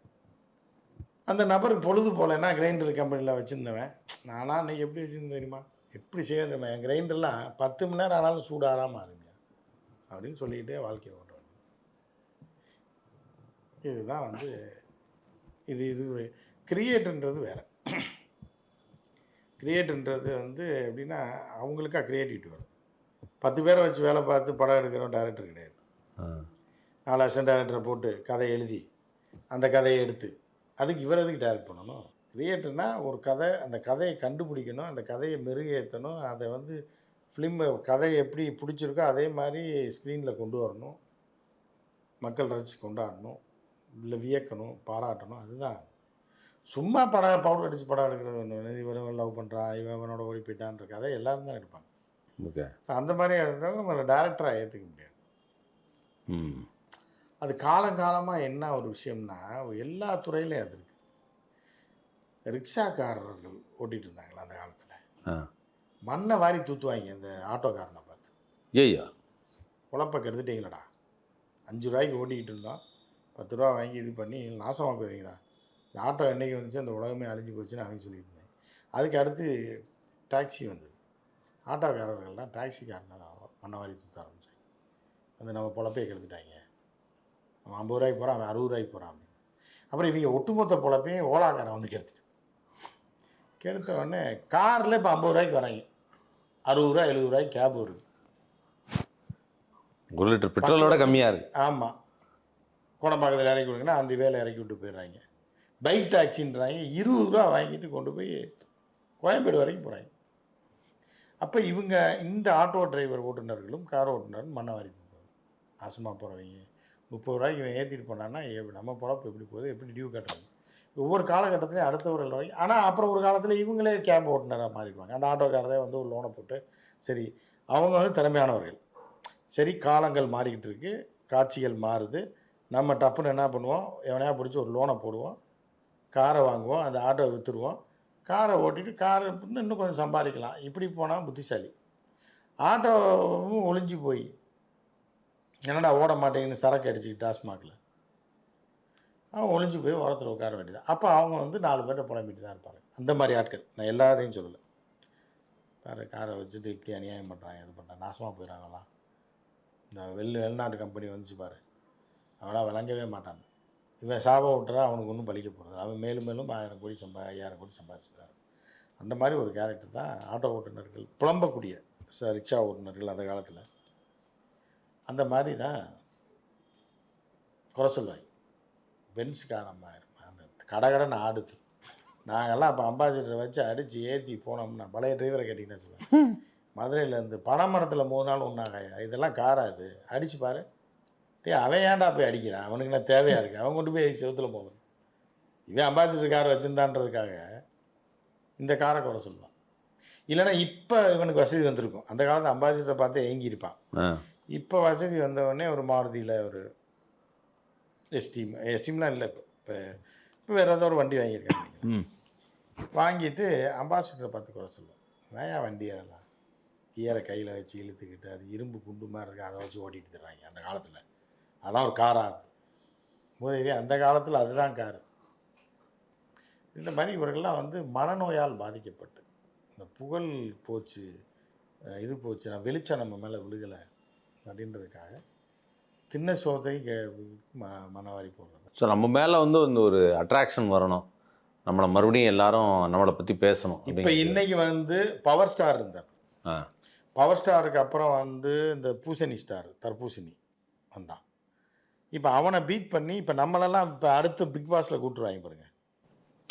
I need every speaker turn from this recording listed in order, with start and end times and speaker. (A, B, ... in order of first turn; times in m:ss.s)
0:01.3-0:09.4 A
0:10.1-0:11.6 A
0:13.9-0:14.5 A
0:15.7-0:18.1 A
0:19.6-0:22.7 A
0:23.4-0:25.8 A
0:26.2-0:26.4 B
0:27.1-0:28.8 A
0:29.5-0:36.8 A
0:37.3-0:41.0 A
0:42.2-0:43.4 A
0:44.0-0:45.8 A
0:46.7-0:51.9 A
0:52.4-0:52.7 B
0:52.9-0:55.2 A
0:56.3-0:56.7 B
0:57.4-1:01.0 A
1:02.5-1:05.0 A
1:06.1-1:08.3 A
1:08.8-1:09.1 B
1:09.9-1:10.9 A
1:11.7-1:12.8 A
1:13.4-1:15.4 A
1:16.0-1:19.5 A
1:20.3-1:21.0 A
1:21.7-1:24.5 A
1:25.4-1:26.6 A
1:27.7-1:29.3 A
1:29.9-1:32.2 A
1:33.6-1:35.8 A
1:36.7-1:38.0 A
1:40.2-1:41.5 B
1:40.6-1:41.9 A
1:43.0-1:45.2 A
1:45.8-1:48.4 A
1:49.2-1:50.1 A
1:51.4-1:55.3 A
1:55.8-2:08.8 A
2:09.5-2:12.2 A
2:12.7-2:15.4 A
2:16.1-2:17.8 A
2:18.3-2:21.7 A
2:22.7-2:24.3 A
2:25.7-2:27.8 A
2:29.4-2:34.6 A
2:35.8-2:38.9 A
2:39.9-2:41.6 A
2:42.4-2:43.5 A
2:44.0-2:48.3 A
2:49.0-2:53.6 A
2:55.1-2:55.8 A
2:57.8-2:58.3 A
2:59.2-3:01.6 A
3:02.3-3:10.6 A
3:11.4-3:14.8 A
3:15.7-3:17.4 A
3:18.6-3:19.5 A
3:20.3-3:23.8 A
3:24.6-3:26.6 A
3:28.2-3:29.8 A
3:30.5-3:31.9 A
3:33.0-3:36.2 A
3:37.0-3:41.0 A
3:41.7-3:42.5 A
3:43.4-3:45.0 A
3:46.8-3:49.2 A
3:49.8-3:51.0 A
3:52.0-3:53.8 A
3:54.4-3:55.2 A
3:56.1-3:58.7 A
3:58.8-4:01.0 B
4:01.7-4:04.4 B
4:03.9-4:06.1 A
4:07.2-4:10.4 A
4:10.9-4:11.2 A
4:12.2-4:15.7 A